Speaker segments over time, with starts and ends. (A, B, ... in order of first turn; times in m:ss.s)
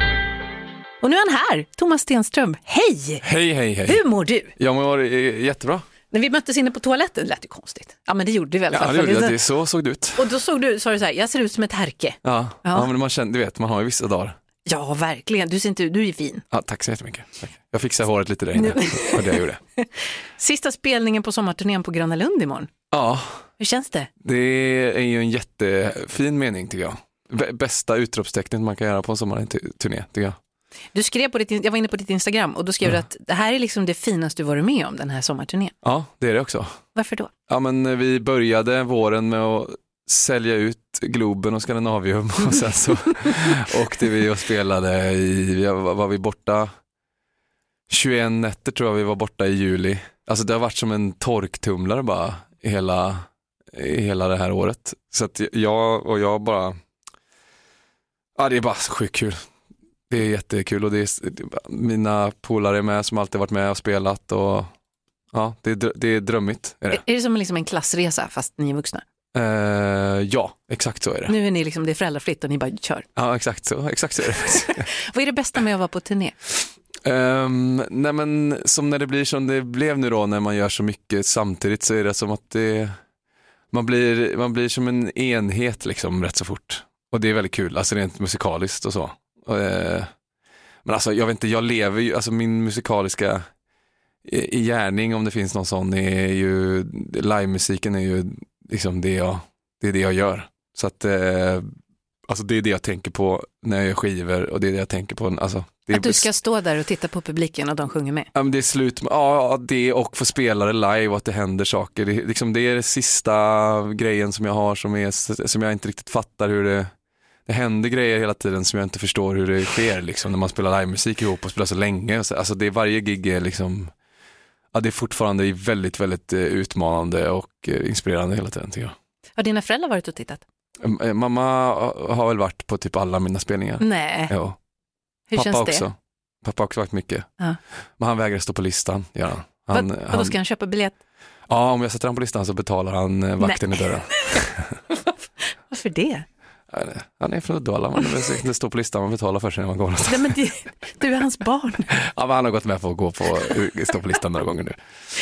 0:01.0-0:03.2 A
0:03.2-0:04.0 B
0:03.9-0:04.5 A
0:04.6-0:05.8 B
0:06.1-0:09.4 A
0:08.7-0:10.3 B
0:10.2-0:12.9 A
0:12.2-0:14.3 B
0:14.6-0:16.4 A
0:16.5-0:19.6 B
0:18.6-0:22.7 A
0:22.9-0:23.4 B
0:23.6-0:24.1 A
0:24.2-0:30.4 B
0:30.9-0:35.7 A
0:35.8-0:36.7 B
0:36.9-0:37.3 A
0:37.5-0:46.7 B
0:47.9-0:56.7 B
0:58.4-0:59.4 B
1:00.1-1:04.7 B
1:05.3-1:07.0 B
1:06.9-1:09.0 A
1:09.3-1:11.3 B
1:11.3-1:13.0 A
1:13.2-1:14.9 B
1:14.6-1:16.3 A
1:17.0-1:22.9 B
1:23.7-1:30.1 B
1:30.8-1:33.4 B
1:34.2-1:41.6 B
1:42.3-1:46.3 B
1:45.9-1:48.3 A
1:48.3-1:56.9 B
1:57.5-2:03.9 B
2:04.7-2:08.9 B
2:09.4-2:10.4 A
2:10.8-2:14.6 B
2:13.8-2:14.3 A
2:15.3-2:15.8 A
2:15.3-2:17.3 B
2:18.0-2:20.4 B
2:19.7-2:21.0 A
2:21.5-2:24.8 B
2:23.4-2:24.4 A
2:25.7-2:26.2 A
2:26.7-2:30.4 B
2:30.1-2:31.9 A
2:31.9-2:34.8 B